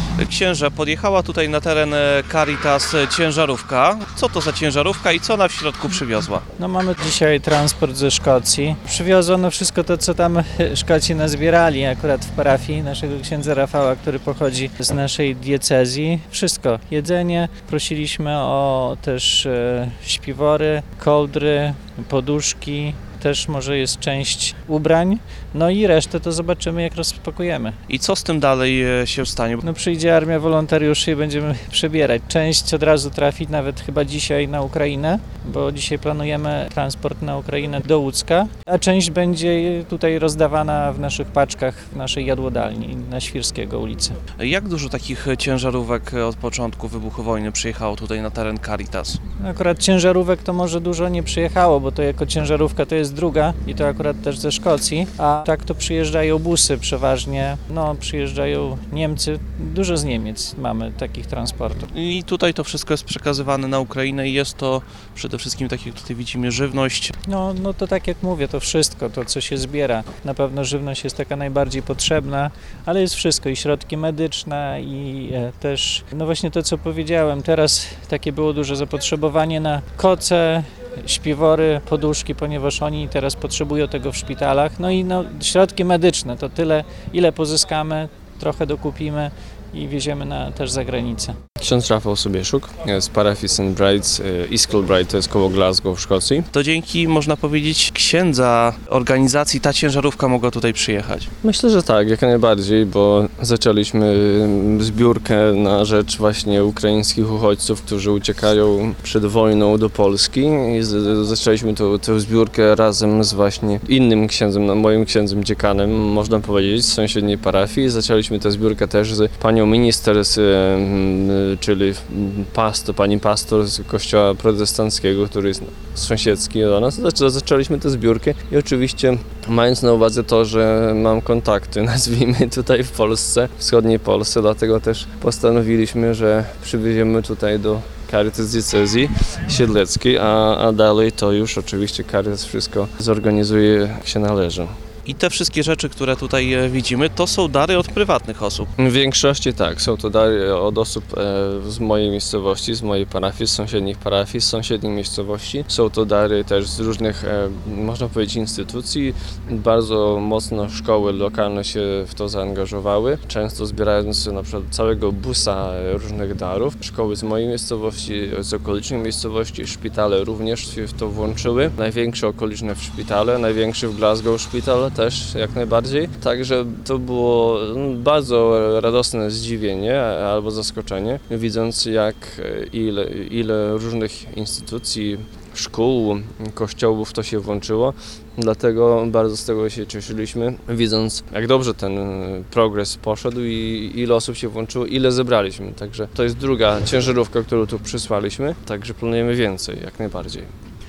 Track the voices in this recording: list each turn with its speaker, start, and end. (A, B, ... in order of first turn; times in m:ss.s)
0:00.2-0:06.4 A
0:06.6-0:27.8 B
0:27.9-0:29.6 A
0:29.6-0:44.2 B
0:44.4-0:49.2 A
0:49.4-1:01.9 B
1:01.9-1:07.1 A
1:07.2-1:31.4 B
1:31.6-1:36.5 C
1:36.5-1:41.3 A
1:41.4-2:24.7 C
2:25.1-2:28.7 A
2:28.8-3:20.5 C